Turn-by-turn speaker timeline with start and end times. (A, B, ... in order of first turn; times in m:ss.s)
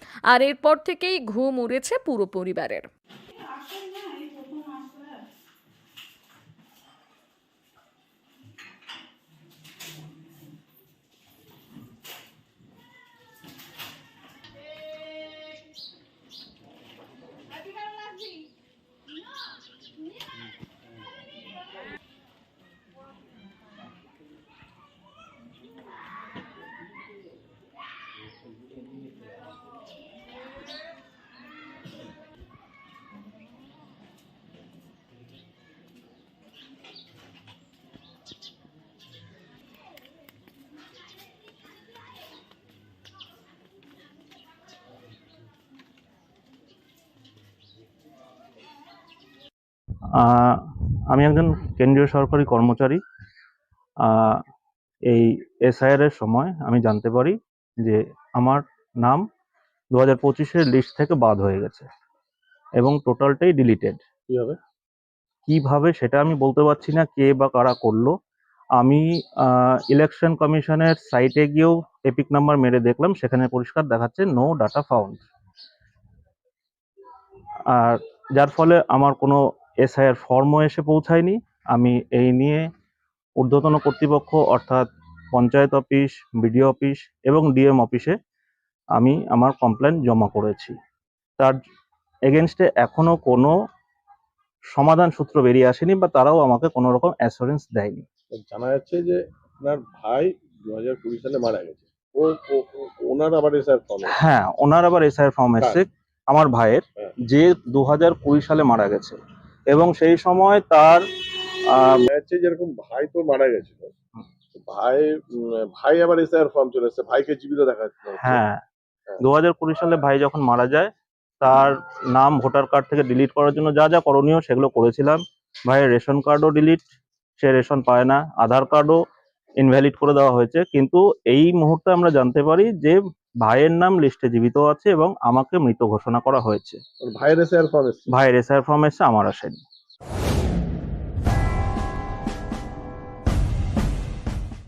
0:00.3-0:02.8 A
0:50.2-0:53.0 B
0:54.0-0:54.4 B
0:55.1-0:59.2 B
0:59.9-1:01.9 B
1:02.8-1:04.0 B
1:04.3-1:04.5 C
1:05.5-1:08.1 B
1:08.8-1:15.2 B
1:17.7-1:22.7 B
1:23.4-1:28.2 B
1:29.0-1:30.7 B
1:32.3-1:33.5 B
1:34.7-1:38.0 B
1:38.4-1:44.0 C
1:44.1-1:49.2 B
1:49.7-1:51.0 B
1:51.7-1:52.0 B
1:52.1-1:53.9 C
1:54.6-1:55.0 C
1:55.8-1:58.4 C
1:58.2-1:58.6 B
1:59.2-2:06.8 B
2:07.4-2:09.0 B
2:09.6-2:16.8 B
2:17.1-2:18.0 C
2:18.1-2:19.6 B